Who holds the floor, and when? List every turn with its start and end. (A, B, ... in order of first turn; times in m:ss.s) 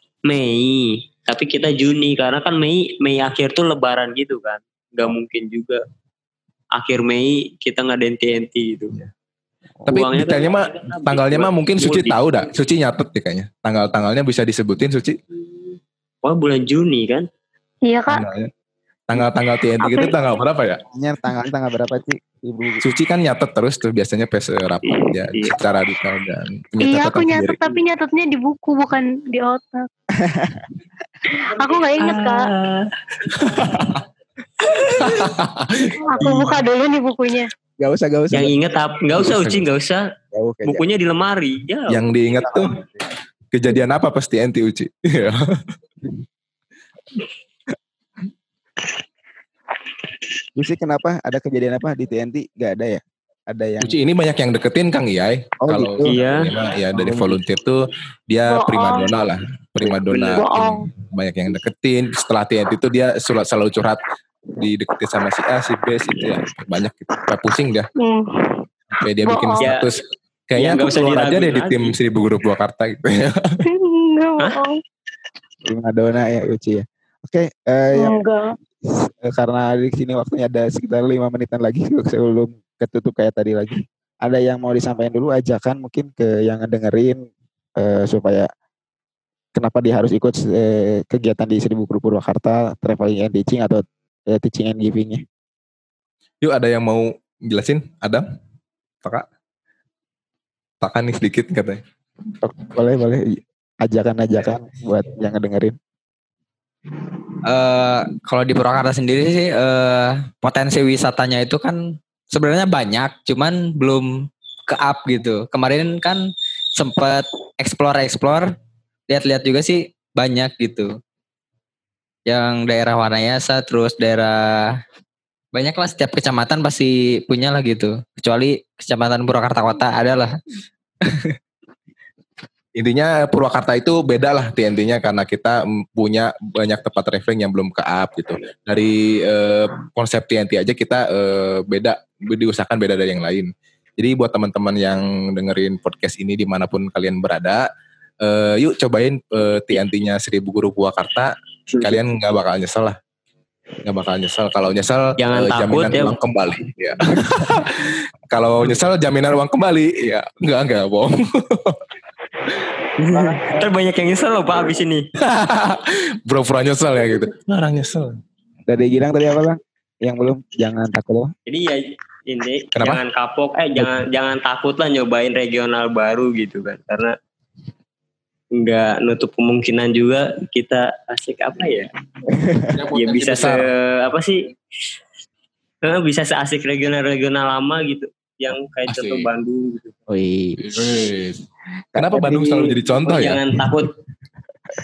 0:00.3-0:05.8 A
0:06.8-0:08.9 A
0:09.8-0:15.2 B
0:09.9-0:12.2 A
0:16.2-0:17.2 A
0:17.8-0:18.2 C
0:18.1-0:18.5 B
0:19.1-0:20.8 B
0:19.8-0:20.1 C
0:20.9-0:22.8 D
0:22.8-0:27.7 B
0:24.9-0:25.5 A
0:26.8-0:29.8 C
0:30.2-0:30.7 D
0:31.6-0:32.5 C
0:32.0-0:32.9 A
0:33.3-0:34.0 B
0:34.9-0:36.4 B
0:36.1-0:37.5 C
0:37.8-0:38.5 D
0:38.3-0:40.0 A
0:39.2-0:39.6 B
0:40.3-0:40.9 D
0:40.6-0:42.0 A
0:41.9-0:42.7 B
0:42.4-0:43.0 D
0:43.5-0:45.4 B
0:50.6-0:54.0 D
0:53.8-1:04.0 B
0:55.6-0:56.2 D
0:56.0-0:56.5 A
0:56.9-0:57.4 D
0:58.5-0:59.2 C
0:59.8-1:00.8 C
1:04.6-1:07.9 B
1:08.0-1:08.6 C
1:09.0-1:13.6 B
1:09.2-1:09.7 C
1:09.6-1:09.9 A
1:10.6-1:11.9 A
1:13.7-1:14.8 C
1:15.6-1:18.1 D
1:17.9-1:18.4 C
1:18.8-1:27.2 D
1:27.8-1:28.4 D
1:29.5-1:35.2 D
1:36.4-1:38.2 B
1:40.8-1:41.8 B
1:42.4-1:45.8 D
1:47.4-1:54.1 E
1:54.7-1:58.5 E
1:59.1-2:01.0 E
2:02.3-2:04.8 E
2:05.5-2:10.3 E
2:12.8-2:27.6 B
2:28.2-2:33.0 B
2:33.8-2:41.8 B
2:35.2-2:36.2 A
2:43.0-2:45.0 A
2:43.1-2:43.6 D
2:45.2-2:48.1 B
2:48.7-2:51.3 D
2:51.5-2:57.1 A
2:52.8-2:53.0 B
2:58.6-3:01.9 A
3:02.3-3:02.7 D
3:02.7-3:03.7 B
3:02.9-3:04.4 A
3:05.8-3:10.0 A
3:08.9-3:09.3 B
3:10.1-3:10.9 D
3:10.6-3:11.4 B
3:11.9-3:12.7 D
3:12.0-3:13.6 B
3:13.0-3:13.9 A